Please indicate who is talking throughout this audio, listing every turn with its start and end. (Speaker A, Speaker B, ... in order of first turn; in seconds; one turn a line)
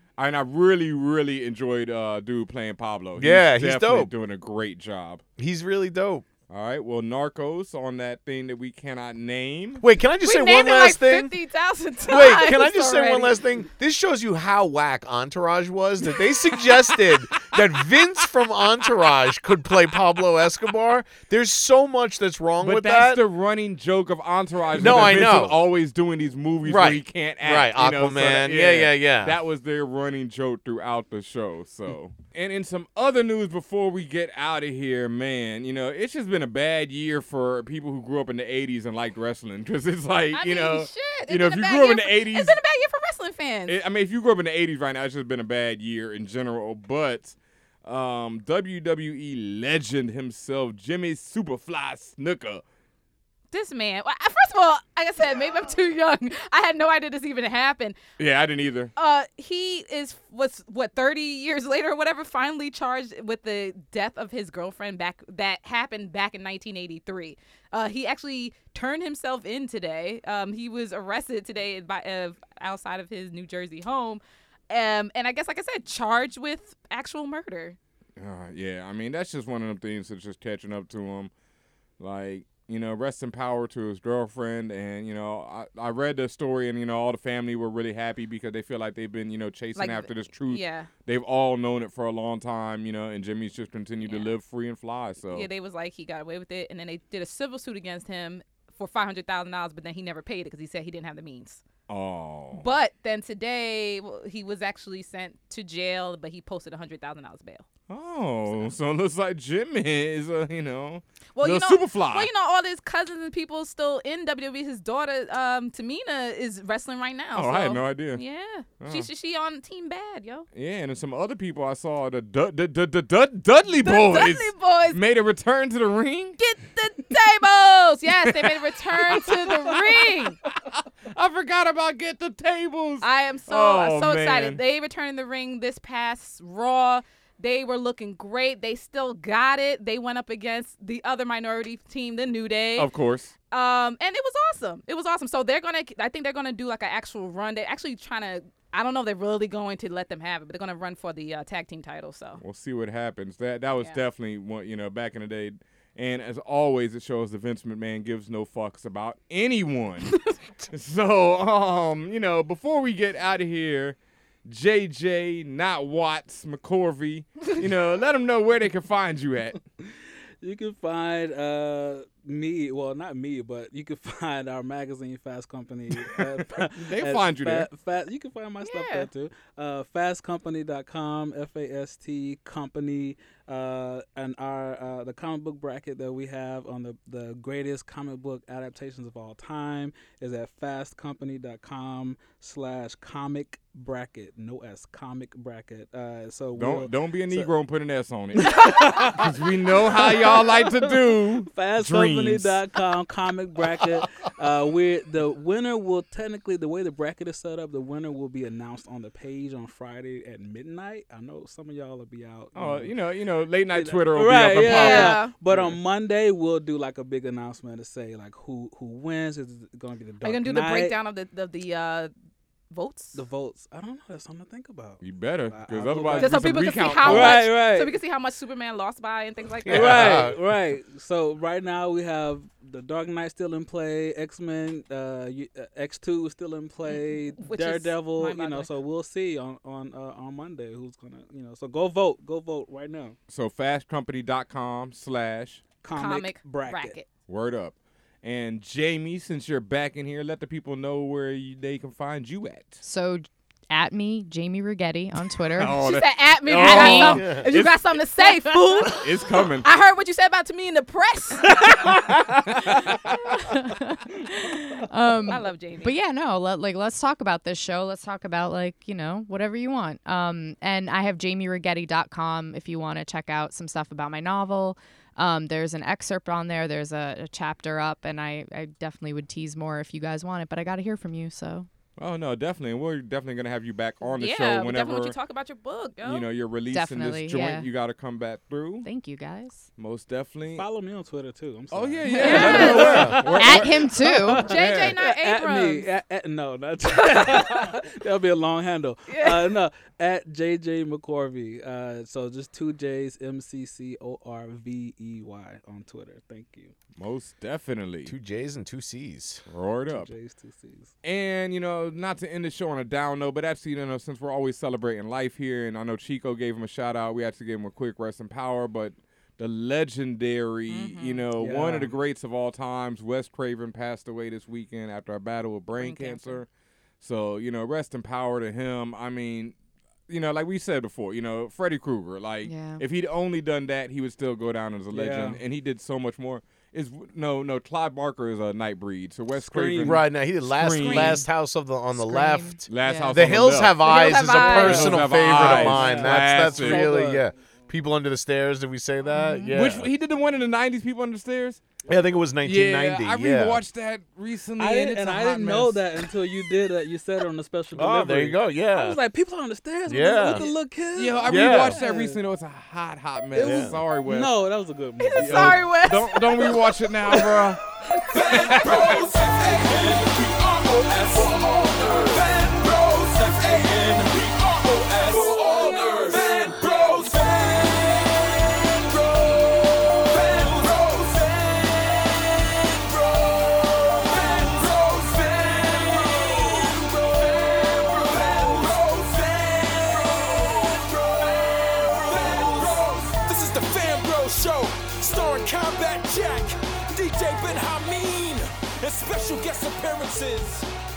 Speaker A: 0.2-5.2
Speaker B: 3.2-4.1
Speaker B: 5.4-6.2
Speaker A: 6.5-9.8
Speaker B: 9.8-11.3
Speaker C: 10.2-13.4
Speaker B: 12.1-23.2
Speaker A: 22.6-42.6
Speaker B: 24.8-25.6
Speaker B: 26.7-29.4
Speaker C: 40.3-43.8
Speaker A: 43.7-52.6
Speaker C: 53.5-58.0
Speaker A: 58.2-58.9
Speaker C: 59.0-77.8
Speaker A: 78.2-81.3
Speaker A: 82.0-95.5
Speaker C: 89.8-90.9
Speaker C: 94.0-94.3
Speaker C: 95.3-101.6
Speaker A: 101.9-102.7
Speaker C: 102.5-107.7
Speaker A: 107.9-112.3
Speaker C: 111.3-120.5
Speaker A: 117.3-118.2
Speaker A: 118.8-119.1
Speaker A: 120.5-126.4
Speaker C: 123.8-125.0
Speaker C: 126.4-130.4
Speaker A: 128.2-129.4
Speaker A: 130.4-134.6
Speaker C: 133.0-142.9
Speaker A: 142.8-143.3
Speaker C: 143.5-152.4
Speaker A: 152.4-169.6
Speaker D: 170.4-197.5
Speaker A: 175.9-177.7
Speaker C: 178.6-179.1
Speaker A: 196.6-202.6
Speaker D: 198.3-212.9
Speaker A: 212.6-215.8
Speaker D: 213.7-221.0
Speaker C: 214.6-215.3
Speaker C: 220.2-222.1
Speaker C: 222.7-223.2
Speaker D: 223.1-227.9
Speaker A: 225.0-227.5
Speaker C: 226.2-230.2
Speaker B: 229.7-230.4
Speaker D: 229.7-243.2
Speaker C: 236.9-238.7
Speaker A: 243.3-245.6
Speaker D: 245.8-247.0
Speaker C: 245.9-247.1
Speaker A: 247.3-252.8
Speaker E: 252.8-255.8
Speaker A: 255.6-258.3
Speaker C: 255.7-259.1
Speaker E: 256.5-257.3
Speaker B: 257.1-257.5
Speaker A: 258.8-259.7
Speaker C: 259.6-262.2
Speaker A: 262.3-263.1
Speaker E: 263.4-264.0
Speaker E: 264.9-281.7
Speaker C: 265.3-265.9
Speaker A: 282.0-285.1
Speaker C: 284.1-286.3
Speaker A: 286.0-288.9
Speaker E: 286.7-287.7
Speaker E: 288.8-289.7
Speaker A: 289.8-290.7
Speaker D: 290.5-306.7
Speaker A: 291.7-295.0
Speaker C: 292.1-293.0
Speaker E: 292.2-294.4
Speaker B: 292.8-293.2
Speaker C: 294.3-295.9
Speaker C: 297.0-297.6
Speaker C: 299.1-299.6
Speaker A: 307.0-308.1
Speaker B: 308.1-309.4
Speaker A: 309.5-310.1
Speaker D: 309.9-310.9
Speaker A: 311.0-326.5
Speaker C: 320.7-321.2
Speaker D: 321.4-321.9
Speaker A: 327.0-329.6
Speaker A: 330.1-341.2
Speaker E: 332.4-332.8
Speaker D: 334.9-335.4
Speaker D: 339.4-340.1
Speaker B: 339.8-349.9
Speaker E: 340.9-341.2
Speaker E: 341.9-343.4
Speaker A: 342.7-346.9
Speaker C: 343.8-345.0
Speaker D: 344.2-347.3
Speaker E: 349.1-349.5
Speaker A: 349.5-351.6
Speaker B: 351.9-353.6
Speaker A: 352.4-356.1
Speaker D: 354.6-362.2
Speaker B: 357.8-359.0
Speaker B: 359.9-360.5
Speaker A: 360.9-364.3
Speaker B: 361.3-361.8
Speaker D: 363.4-365.7
Speaker B: 363.4-363.8
Speaker C: 365.0-366.6
Speaker A: 365.2-367.6
Speaker F: 368.1-400.7
Speaker A: 368.2-369.1